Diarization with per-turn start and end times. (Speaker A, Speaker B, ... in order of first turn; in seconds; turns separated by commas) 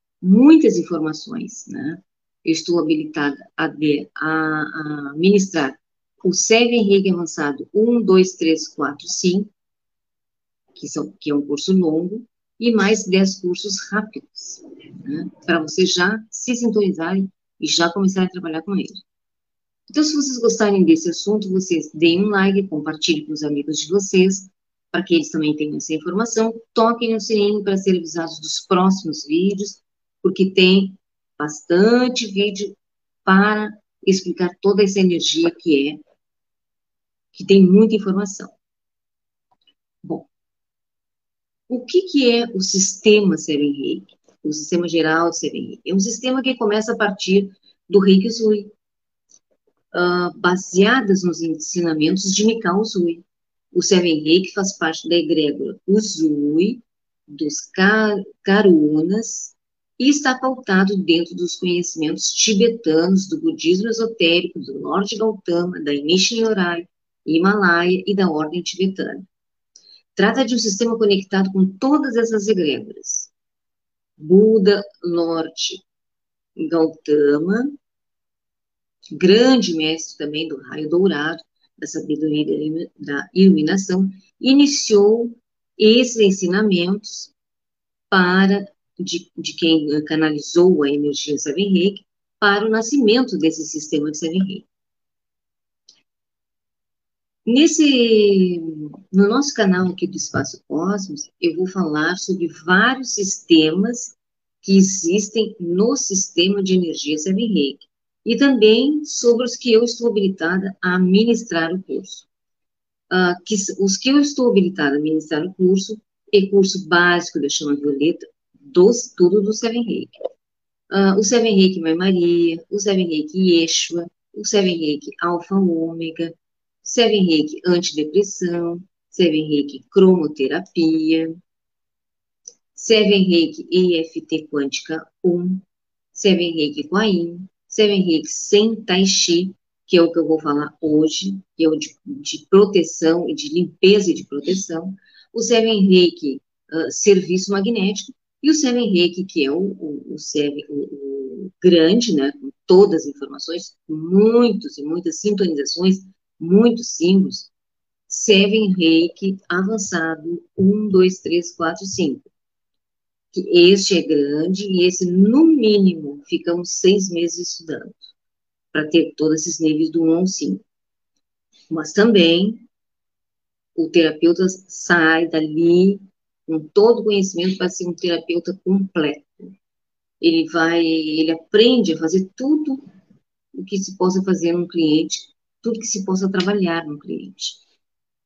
Speaker A: 0.2-9.5, Speaker A: 10.7-19.0, Speaker A: 19.9-36.0, Speaker A: 37.3-38.5, Speaker A: 40.0-40.3, Speaker A: 41.7-48.7, Speaker A: 49.9-69.2, Speaker A: 70.2-73.3, Speaker A: 74.2-75.8, Speaker A: 76.6-77.7, Speaker A: 79.1-87.3, Speaker A: 88.1-94.7, Speaker A: 97.5-112.3, Speaker A: 113.1-120.1, Speaker A: 120.9-131.4, Speaker A: 132.7-157.5, Speaker A: 158.1-162.3, Speaker A: 163.3-168.1, Speaker A: 168.7-170.6, Speaker A: 171.7-172.6, Speaker A: 173.8-179.5, Speaker A: 180.2-182.8, Speaker A: 183.5-187.6